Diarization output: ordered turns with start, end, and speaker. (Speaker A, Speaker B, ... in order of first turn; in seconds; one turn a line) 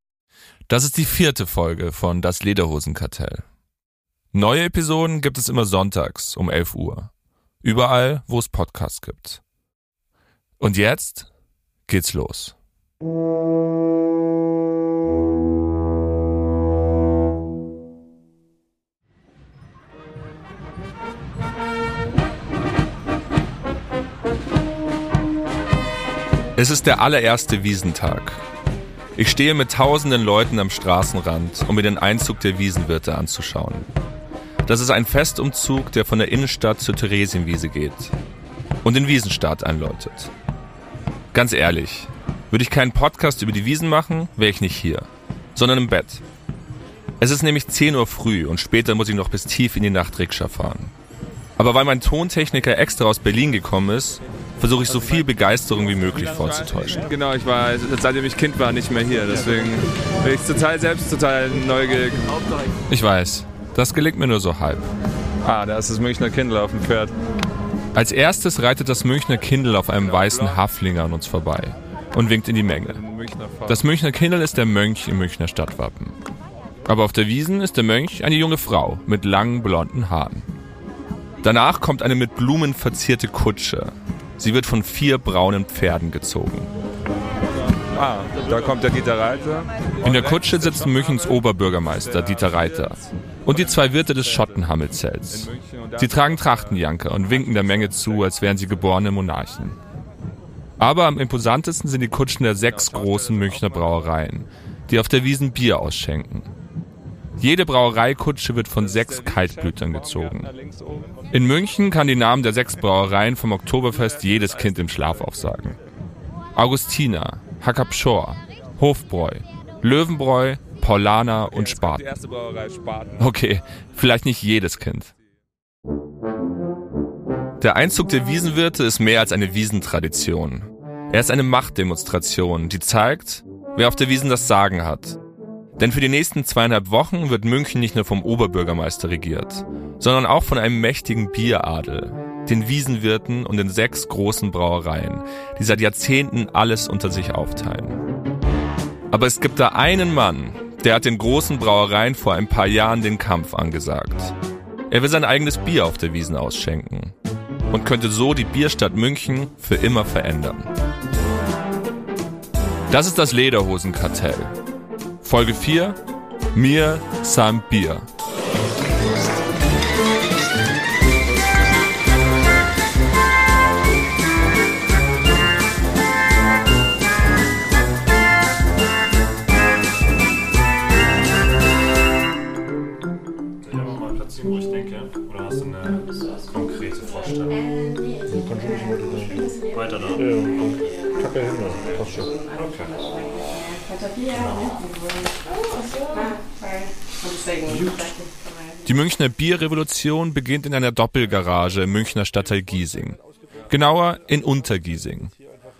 Speaker A: 0.7-3.4
Speaker A: 4.3-7.1
Speaker A: 7.6-9.4
Speaker A: 10.6-11.3
Speaker A: 11.9-12.5
Speaker A: 26.6-28.4
Speaker A: 29.1-33.9
Speaker A: 34.6-38.1
Speaker A: 38.8-40.3
Speaker A: 41.3-46.2
Speaker A: 47.2-50.9
Speaker A: 51.6-57.1
Speaker B: 54.9-62.3
Speaker A: 62.9-64.9
Speaker B: 65.4-67.1
Speaker A: 67.9-73.0
Speaker B: 69.9-70.6
Speaker B: 72.8-73.8
Speaker A: 73.7-76.2
Speaker A: 76.8-80.5
Speaker A: 81.4-86.7
Speaker B: 87.9-94.7
Speaker A: 90.0-99.8
Speaker B: 95.3-99.0
Speaker A: 100.8-106.5
Speaker B: 102.6-104.1
Speaker A: 107.4-110.5
Speaker B: 108.8-111.2
Speaker A: 111.3-115.8
Speaker B: 113.9-115.5
Speaker A: 116.5-122.2
Speaker B: 121.4-123.3
Speaker A: 123.2-125.1
Speaker A: 127.6-135.2
Speaker A: 135.8-148.0
Speaker A: 149.1-154.3
Speaker A: 154.9-157.1
Speaker A: 157.7-160.7
Speaker A: 162.9-164.6
Speaker A: 165.2-166.0
Speaker A: 166.5-168.1
Speaker C: 183.6-187.6
Speaker D: 188.3-189.4
Speaker C: 189.2-191.0
Speaker D: 190.1-192.3
Speaker C: 191.7-192.9
Speaker C: 194.3-194.9
Speaker A: 198.8-205.3